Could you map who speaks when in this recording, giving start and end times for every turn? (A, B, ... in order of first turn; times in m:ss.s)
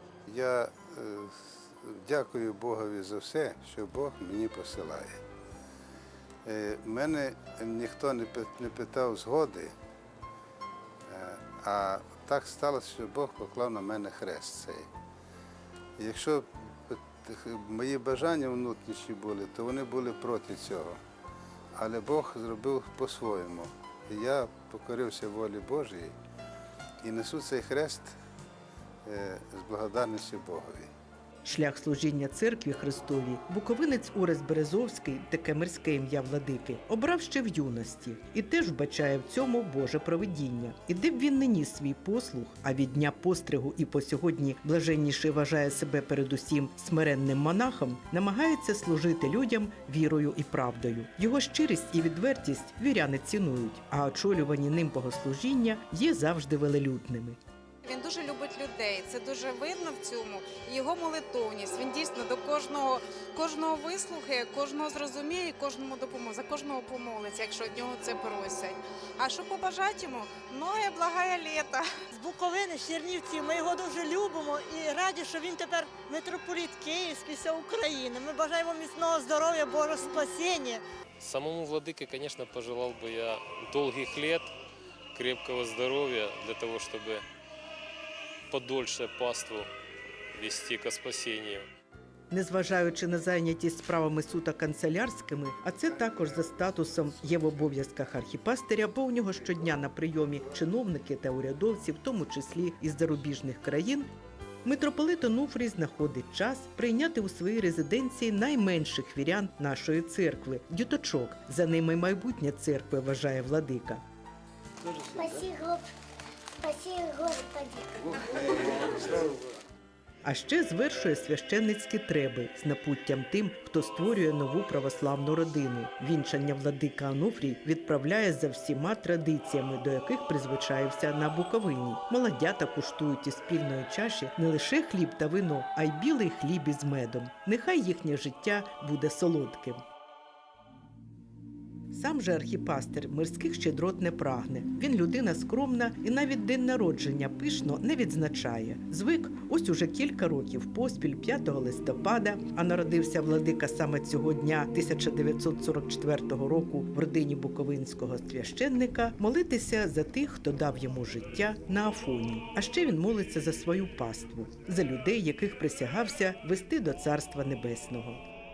0:00.3-0:05.2 A
0:06.4-0:09.7 A
0:11.1-0:14.8 A
0:16.0-0:21.0 A
0:21.7-0:26.1 A
0:27.0-0:28.1 A
0:29.0-0:30.9 A
0:31.4-0:57.4 B
0:58.0-1:07.8 C
1:09.2-1:11.8 C
1:12.1-1:20.8 D
1:21.2-1:24.5 E
1:25.1-1:27.2 E
1:28.5-1:29.7 E
1:30.3-1:31.6 E
1:32.3-1:44.1 B
1:44.6-1:54.0 B
1:55.0-1:55.9 F
1:56.6-1:58.8 F
1:58.4-1:59.3 A
2:00.2-2:19.8 B
2:21.9-2:48.2 B